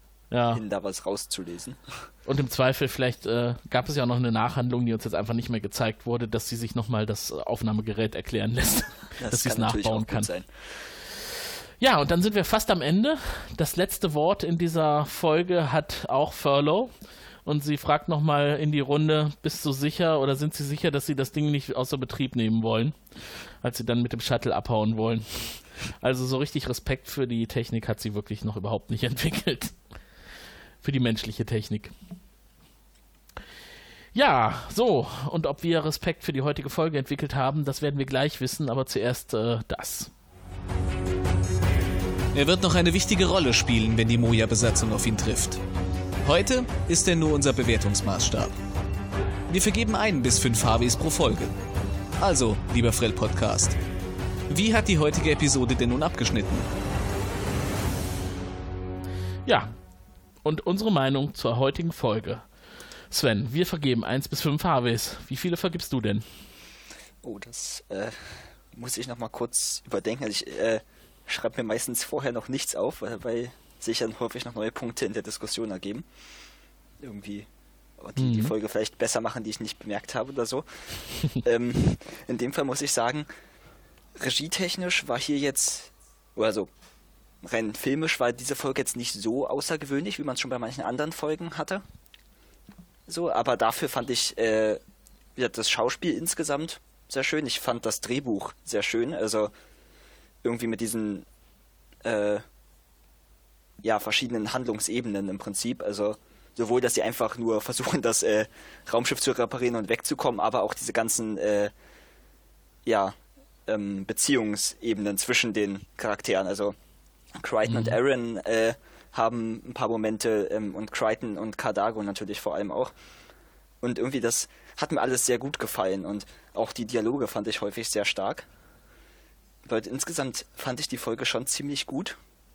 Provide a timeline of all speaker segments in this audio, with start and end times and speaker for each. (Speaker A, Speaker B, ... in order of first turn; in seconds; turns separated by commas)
Speaker A: 0.3-0.6, Speaker B: 0.5-2.0, Speaker A: 2.3-10.3, Speaker B: 9.2-10.5, Speaker A: 11.8-16.9, Speaker A: 17.4-23.0, Speaker A: 23.6-29.8, Speaker A: 30.8-31.9, Speaker A: 34.1-40.1, Speaker C: 42.3-45.6, Speaker C: 46.2-48.5, Speaker C: 49.5-51.5, Speaker C: 52.2-53.8, Speaker C: 54.5-56.7, Speaker A: 59.5-59.7, Speaker A: 60.4-62.4, Speaker A: 63.1-66.2, Speaker B: 67.2-76.1, Speaker B: 77.0-77.5, Speaker B: 78.0-83.3, Speaker A: 78.2-78.5, Speaker B: 84.2-86.7, Speaker B: 87.4-91.8, Speaker B: 93.1-94.8, Speaker B: 95.4-99.5, Speaker B: 100.4-101.3, Speaker B: 102.0-102.4, Speaker B: 103.8-111.7, Speaker B: 112.8-116.8, Speaker B: 117.3-122.9, Speaker A: 117.7-118.0, Speaker B: 123.8-128.5, Speaker B: 129.6-132.2